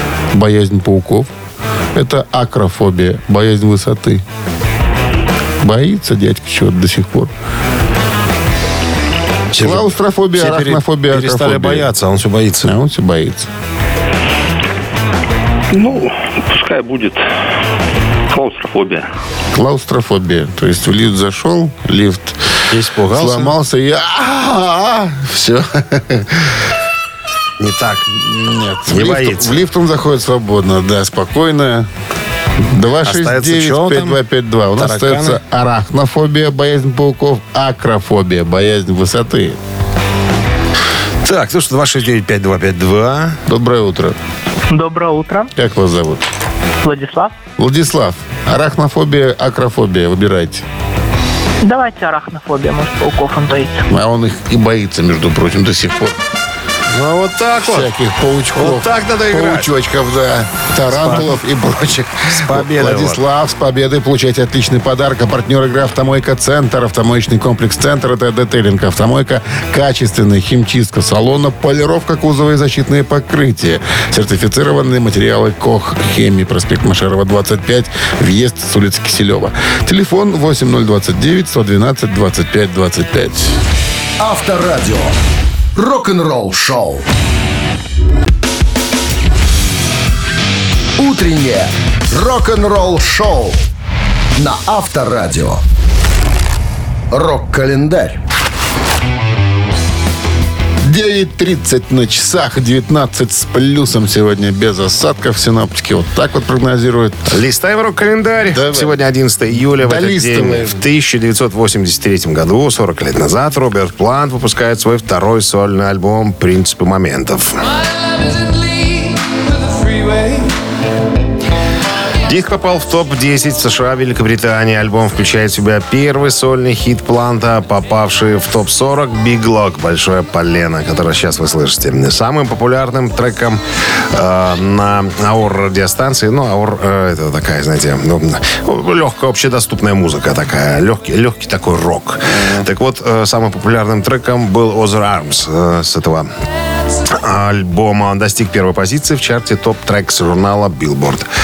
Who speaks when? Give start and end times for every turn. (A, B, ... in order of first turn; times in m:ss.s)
0:00.3-0:01.3 A
0:01.9-0:04.2 A
0:05.6-0:07.3 A
0:09.5-0:12.7 B
0:09.6-0:11.9 A
0:12.6-0:13.5 A
0:15.7-0:17.2 C
0:18.3-0:19.0 C
0:19.5-0:22.6 A
0:22.7-0:23.5 B
0:23.1-0:26.6 A
0:27.6-0:28.1 B
0:28.1-0:31.9 A
0:28.9-0:29.6 B
0:32.6-0:39.6 A
0:33.0-0:34.2 B
0:34.8-0:35.4 B
0:41.2-0:43.4 B
0:43.4-0:44.2 A
0:44.7-0:45.5 D
0:45.5-0:46.2 A
0:46.8-0:47.3 D
0:47.6-0:50.6 A
0:51.6-0:53.8 D
0:53.9-0:56.2 A
0:56.9-0:57.9 B
0:57.6-1:23.6 A
0:58.6-0:59.7 B
1:00.9-1:01.4 B
1:02.3-1:03.2 B
1:24.2-1:25.2 E
1:25.7-1:27.1 E
1:31.0-1:33.6 E
1:34.4-1:35.6 E
1:37.1-1:38.2 E
1:40.8-1:47.4 A
1:47.3-1:57.6 B
1:48.5-1:49.0 A
1:49.8-1:50.8 A
2:02.2-2:13.6 B
2:14.1-2:26.3 B
2:27.1-2:31.2 B